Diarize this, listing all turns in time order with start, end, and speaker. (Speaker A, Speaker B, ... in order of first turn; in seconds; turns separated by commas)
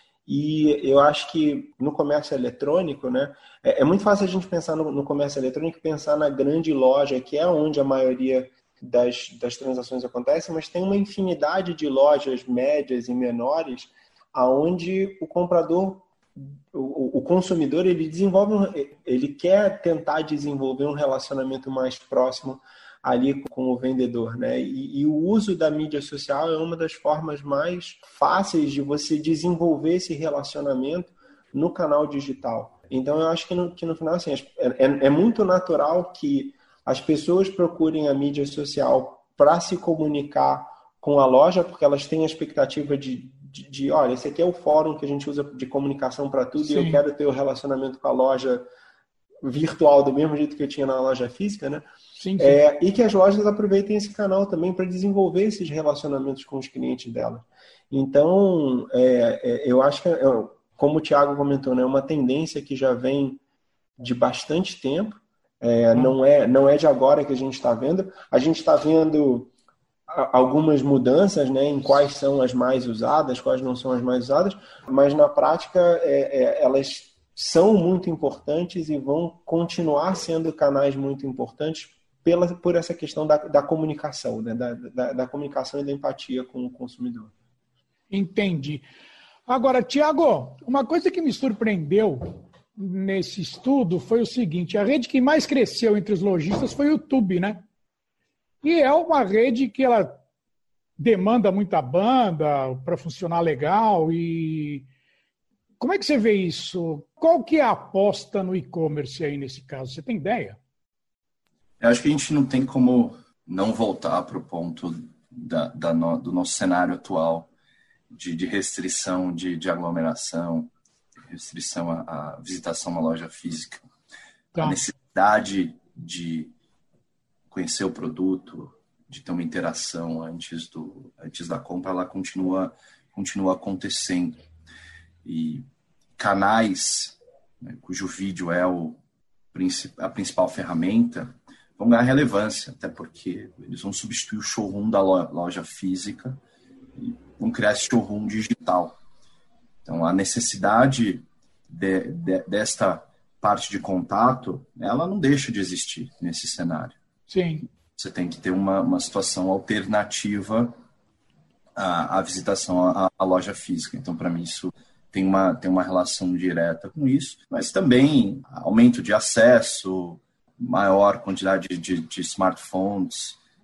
Speaker A: 0.3-48.6, Speaker B: 46.6-47.0, Speaker A: 49.4-51.9, Speaker B: 52.2-52.6, Speaker A: 52.4-63.4, Speaker A: 64.0-69.5, Speaker A: 70.1-87.3, Speaker B: 88.1-88.9, Speaker B: 89.5-97.7, Speaker B: 98.6-100.2, Speaker B: 101.0-104.9, Speaker B: 105.8-110.6, Speaker C: 111.8-117.5, Speaker C: 118.1-120.7, Speaker C: 121.3-123.8, Speaker C: 124.6-126.5, Speaker C: 127.5-134.4, Speaker C: 135.2-135.7, Speaker C: 136.2-139.0, Speaker C: 139.5-146.4, Speaker C: 147.0-149.0, Speaker C: 149.8-157.0, Speaker B: 157.3-157.7, Speaker C: 157.9-160.8, Speaker C: 161.8-173.4